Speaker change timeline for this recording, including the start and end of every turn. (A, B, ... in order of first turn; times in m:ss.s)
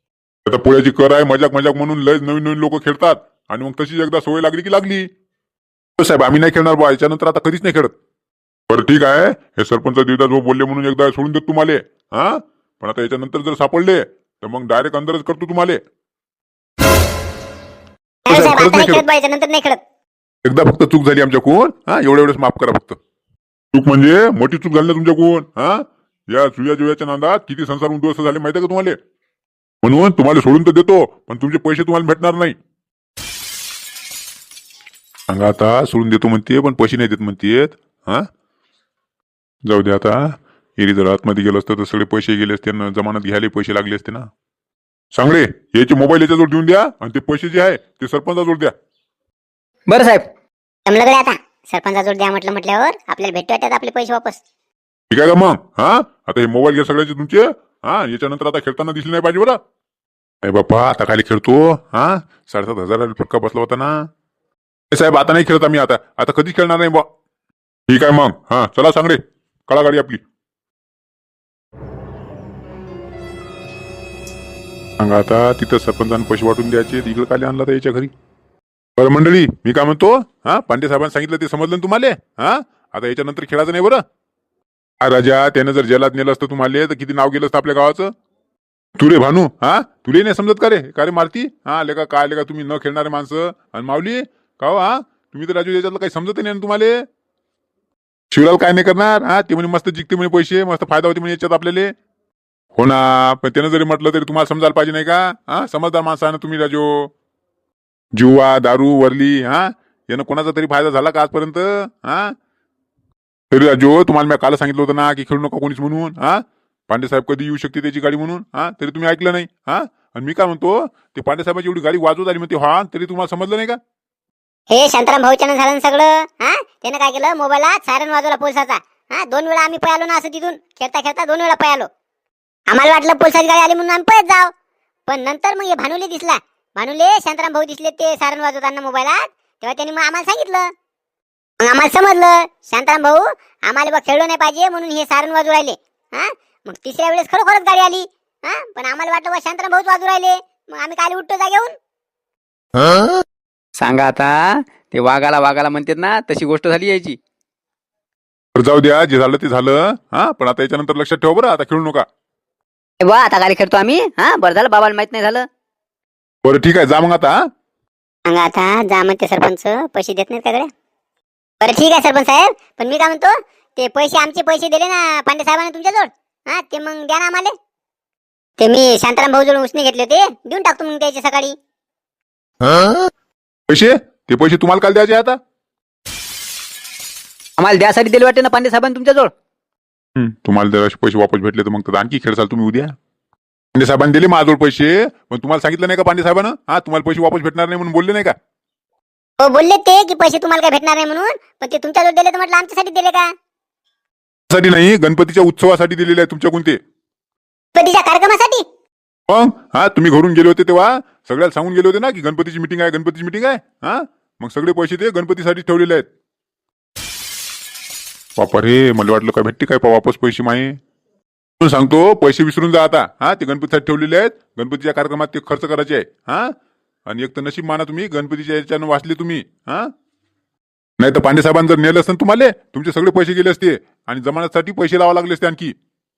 0:00.5-0:05.1 A
0:06.0-0:07.9 A
0:08.7-0:15.8 A
0:18.3-0:19.8 B
0:18.3-0:19.0 A
0:20.4-0:23.0 A
0:23.7-0:29.0 A
0:29.8-0:32.6 A
0:35.3-0:38.3 A
0:39.7-0:44.3 A
0:45.1-0:48.7 A
0:49.9-0:50.3 C
0:50.9-0:54.4 B
0:55.1-0:59.6 A
1:00.4-1:04.1 A
1:04.9-1:07.1 A
1:07.9-1:10.2 A
1:15.0-1:18.1 A
1:19.0-1:24.0 A
1:25.0-1:28.1 A
1:29.0-1:37.0 A
1:38.3-1:41.9 A
1:42.8-1:47.1 A
1:48.2-1:52.4 A
1:53.5-2:03.8 A
2:04.7-2:11.9 B
2:12.7-2:14.5 B
2:15.1-2:20.7 B
2:21.6-2:31.8 B
2:33.8-2:37.2 C
2:38.6-2:42.1 A
2:43.0-2:45.5 C
2:46.4-2:47.4 A
2:48.3-2:50.7 B
2:51.6-2:57.5 B
2:58.6-3:01.6 B
3:03.7-3:05.4 A
3:07.6-3:09.3 C
3:10.2-3:12.9 A
3:13.8-3:18.4 A
3:19.4-3:23.3 B
3:24.5-3:26.8 A
3:27.8-3:28.6 B
3:29.3-3:36.1 A
3:38.4-3:40.8 A
3:41.6-3:46.5 A
3:47.1-3:49.9 A
3:51.0-3:55.8 A